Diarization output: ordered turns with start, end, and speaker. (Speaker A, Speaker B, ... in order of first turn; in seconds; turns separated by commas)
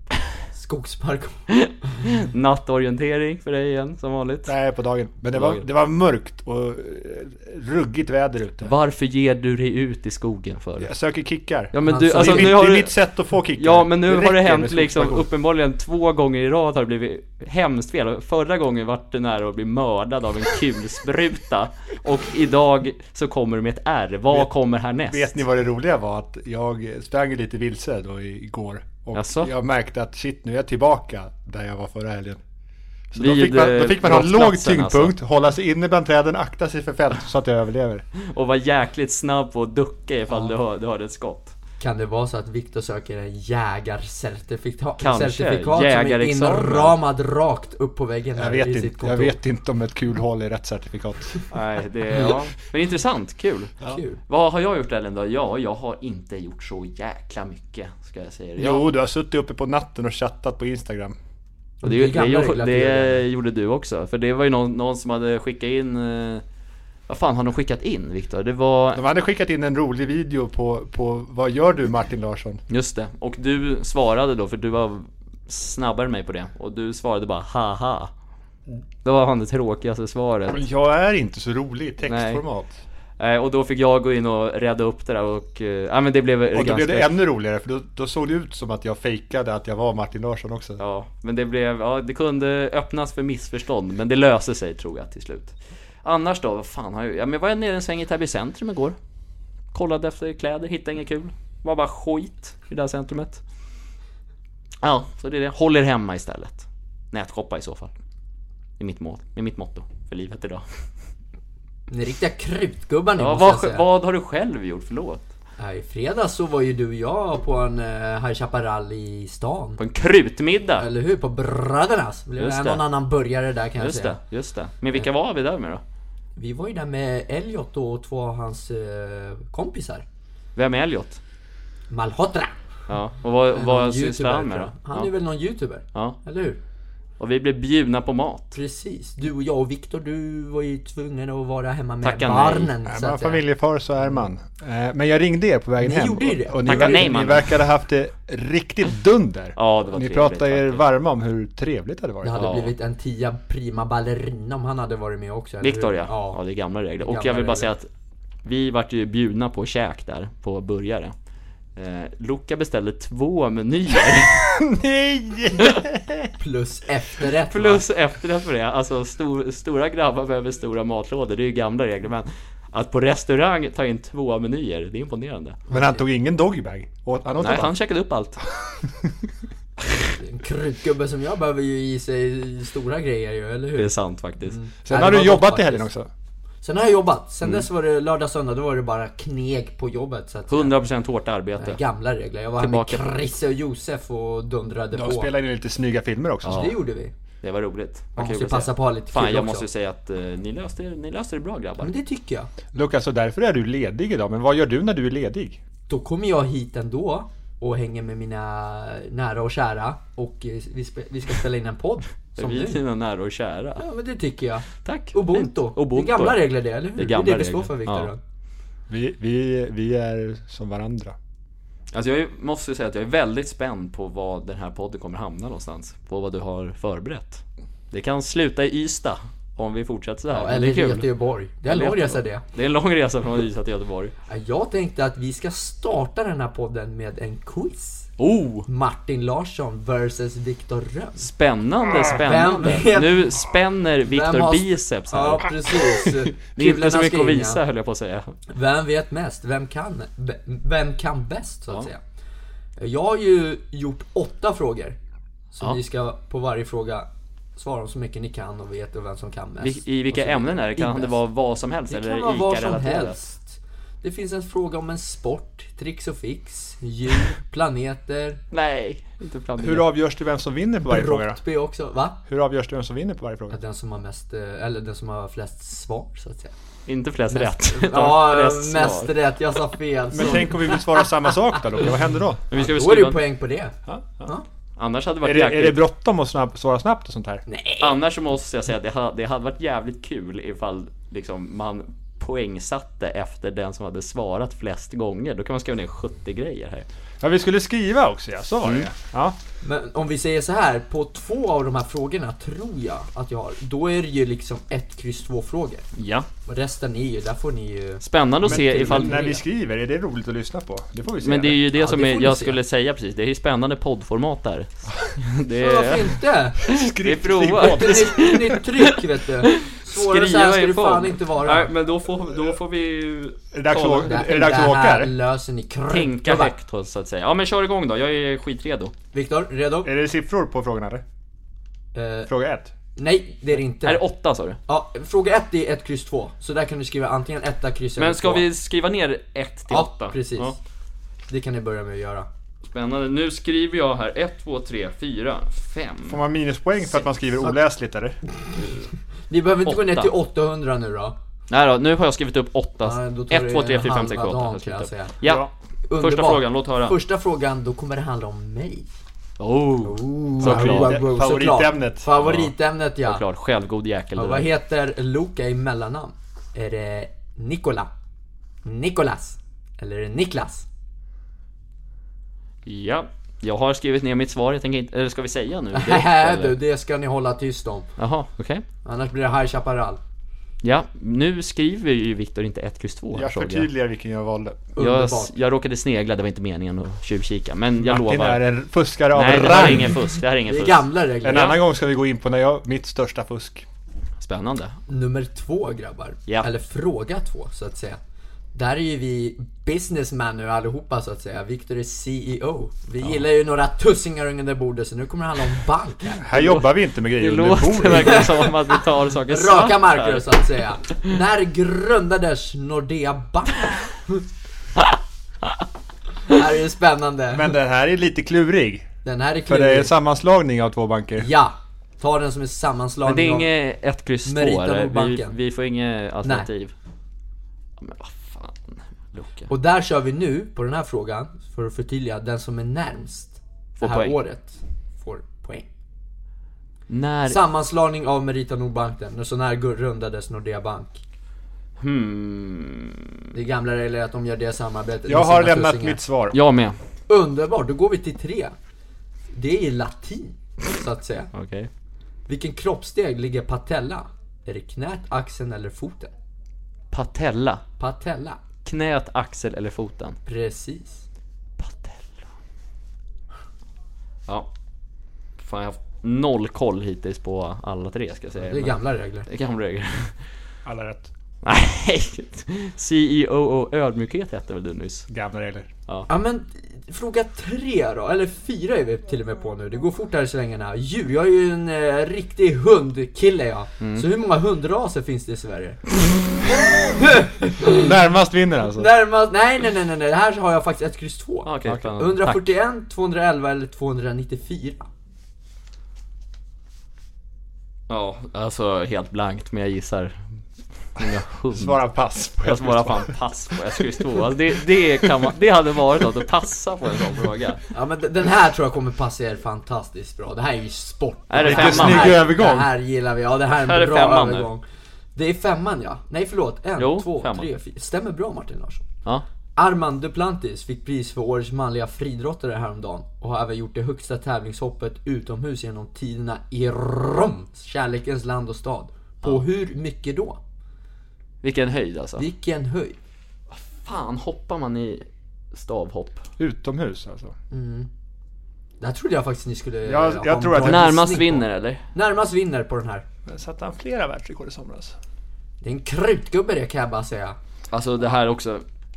Speaker A: 0.5-1.4, Speaker B: 1.5-4.5, Speaker C: 4.5-8.7, Speaker B: 5.3-5.6, Speaker B: 8.6-10.9, Speaker C: 10.8-15.3, Speaker B: 11.7-12.9, Speaker A: 11.8-12.6, Speaker B: 13.5-25.3, Speaker C: 25.0-32.4, Speaker B: 29.1-29.5, Speaker C: 33.1-38.0, Speaker B: 33.1-35.1, Speaker B: 38.2-41.5, Speaker A: 41.8-49.4, Speaker B: 45.0-47.0, Speaker C: 48.4-51.4, Speaker B: 51.5-58.8, Speaker A: 53.9-54.2, Speaker C: 58.6-61.1, Speaker A: 61.8-63.2, Speaker B: 61.8-66.4, Speaker B: 67.1-69.0, Speaker C: 68.9-72.6, Speaker B: 72.7-78.1, Speaker B: 79.0-80.6, Speaker C: 80.5-82.8, Speaker B: 82.0-82.4, Speaker B: 83.2-87.1, Speaker C: 86.5-90.8, Speaker B: 90.8-99.0, Speaker B: 99.7-103.4, Speaker B: 104.8-107.9, Speaker B: 108.8-110.6, Speaker A: 111.9-113.8, Speaker B: 113.2-115.2, Speaker A: 115.6-119.8, Speaker B: 119.8-120.8, Speaker A: 120.8-124.2, Speaker B: 122.4-122.8, Speaker B: 123.8-125.8, Speaker A: 126.3-130.0, Speaker B: 130.6-131.2, Speaker A: 131.9-132.5, Speaker B: 132.9-135.1, Speaker A: 133.5-136.6, Speaker B: 137.2-138.5, Speaker A: 138.5-143.4, Speaker B: 142.0-142.7, Speaker C: 142.8-152.4, Speaker A: 145.8-147.2, Speaker B: 146.6-147.5, Speaker B: 149.6-150.8, Speaker A: 152.2-156.4, Speaker B: 152.3-152.7, Speaker B: 155.6-157.9, Speaker A: 157.0-157.7, Speaker B: 158.4-161.1, Speaker B: 161.8-164.5, Speaker C: 164.2-166.3, Speaker B: 165.6-165.8, Speaker A: 166.4-167.8, Speaker B: 167.5-175.6, Speaker C: 175.7-177.8, Speaker B: 177.4-178.4, Speaker C: 178.6-179.1, Speaker A: 180.0-185.9, Speaker B: 183.8-184.6, Speaker C: 184.8-186.1, Speaker A: 186.6-190.7, Speaker B: 190.5-191.8, Speaker A: 191.6-195.3, Speaker B: 192.6-193.1, Speaker C: 194.9-196.7, Speaker B: 196.4-196.7, Speaker A: 196.4-197.1, Speaker B: 197.4-201.9, Speaker A: 198.2-199.7, Speaker A: 201.8-202.5, Speaker C: 202.7-205.6, Speaker A: 205.9-212.8, Speaker B: 212.3-213.8, Speaker A: 213.8-218.2, Speaker B: 214.8-218.1, Speaker C: 218.9-221.1, Speaker B: 221.9-231.1, Speaker A: 230.3-232.4, Speaker B: 231.7-234.1, Speaker A: 234.3-238.1, Speaker B: 238.2-238.7, Speaker A: 238.7-241.3, Speaker B: 241.2-248.4, Speaker A: 242.1-243.4, Speaker A: 244.1-247.6, Speaker A: 248.5-252.0, Speaker A: 252.8-255.0, Speaker A: 255.5-261.2, Speaker B: 259.6-263.2, Speaker A: 261.9-268.4, Speaker B: 268.5-269.9, Speaker C: 269.6-271.4, Speaker A: 270.8-272.2, Speaker C: 272.2-273.6, Speaker A: 273.5-276.5, Speaker B: 276.9-279.1, Speaker A: 277.3-281.6, Speaker C: 280.1-282.4, Speaker B: 282.5-283.2, Speaker A: 282.5-284.4, Speaker C: 283.9-284.3, Speaker B: 284.8-285.8, Speaker C: 285.2-287.4, Speaker A: 287.5-288.0, Speaker B: 287.8-296.9, Speaker C: 297.2-299.4, Speaker A: 299.6-305.9, Speaker B: 305.9-306.3, Speaker A: 306.4-309.4, Speaker B: 308.0-309.3, Speaker C: 308.4-311.7, Speaker B: 311.2-324.1, Speaker A: 311.7-312.6, Speaker A: 315.5-316.7, Speaker C: 316.6-318.6, Speaker A: 317.6-321.7, Speaker C: 323.5-325.1, Speaker A: 324.0-326.5, Speaker B: 325.9-328.9, Speaker A: 329.1-329.9, Speaker C: 329.8-331.0, Speaker A: 331.9-332.3, Speaker C: 332.3-332.7, Speaker A: 332.9-334.0, Speaker B: 333.8-334.6, Speaker A: 334.7-338.4, Speaker B: 338.0-340.6, Speaker A: 339.7-340.6, Speaker A: 341.3-342.3, Speaker B: 342.7-346.2, Speaker C: 346.1-348.2, Speaker A: 349.3-351.1, Speaker B: 349.6-350.1, Speaker B: 351.5-355.5, Speaker A: 352.8-355.2, Speaker C: 355.2-355.5, Speaker A: 355.9-358.9, Speaker B: 356.0-356.9, Speaker B: 359.4-360.9, Speaker A: 359.8-363.2, Speaker C: 360.4-362.1, Speaker B: 362.1-364.5, Speaker A: 364.1-367.9, Speaker A: 368.6-370.7, Speaker B: 372.6-376.6, Speaker A: 375.7-377.9, Speaker B: 378.0-378.6, Speaker A: 378.8-380.0, Speaker B: 380.6-383.7, Speaker C: 383.1-384.6, Speaker A: 384.8-385.3, Speaker B: 384.8-388.4, Speaker C: 387.8-390.0, Speaker B: 389.1-391.6, Speaker A: 389.6-391.6, Speaker C: 391.2-393.6, Speaker B: 394.2-394.8, Speaker A: 394.9-398.0, Speaker A: 398.5-406.4, Speaker C: 406.2-408.3, Speaker B: 406.4-410.4, Speaker A: 407.8-414.2, Speaker A: 416.2-417.5, Speaker C: 417.3-418.9, Speaker A: 419.0-419.9, Speaker C: 419.5-421.3, Speaker A: 421.2-423.5, Speaker B: 423.0-426.7, Speaker A: 424.2-425.4, Speaker A: 426.2-426.5, Speaker B: 427.8-429.5, Speaker A: 429.5-435.7, Speaker B: 433.8-434.1, Speaker B: 436.9-437.4, Speaker A: 437.3-441.0, Speaker B: 441.8-443.2, Speaker A: 443.3-446.0, Speaker C: 445.1-446.4, Speaker B: 446.3-446.8, Speaker A: 447.1-448.5, Speaker A: 449.3-451.3, Speaker B: 451.3-451.7, Speaker A: 452.3-456.1, Speaker B: 456.9-457.6, Speaker A: 457.8-458.4, Speaker B: 458.6-460.2, Speaker A: 460.2-461.1, Speaker B: 461.6-462.1, Speaker B: 465.4-468.8, Speaker A: 468.4-469.3, Speaker B: 469.3-470.2, Speaker C: 470.6-471.1, Speaker B: 471.4-475.1, Speaker C: 475.1-475.7, Speaker A: 476.1-485.9, Speaker B: 483.8-484.1, Speaker A: 486.7-487.9, Speaker C: 487.6-488.9, Speaker A: 488.8-494.9, Speaker B: 491.4-492.5, Speaker B: 497.9-500.2, Speaker B: 500.9-501.8, Speaker C: 501.0-503.1, Speaker B: 502.4-507.6, Speaker A: 507.7-514.6, Speaker B: 511.3-512.2, Speaker C: 511.4-512.7, Speaker B: 513.6-514.5, Speaker A: 515.1-518.9, Speaker B: 516.8-517.5, Speaker A: 519.5-530.4, Speaker B: 531.4-532.2, Speaker A: 532.2-533.0, Speaker B: 533.5-536.2, Speaker C: 536.4-537.3, Speaker A: 537.5-537.9, Speaker A: 538.8-543.0, Speaker C: 539.9-540.9, Speaker B: 540.6-541.8, Speaker C: 543.2-545.0, Speaker A: 545.6-547.4, Speaker B: 547.7-548.6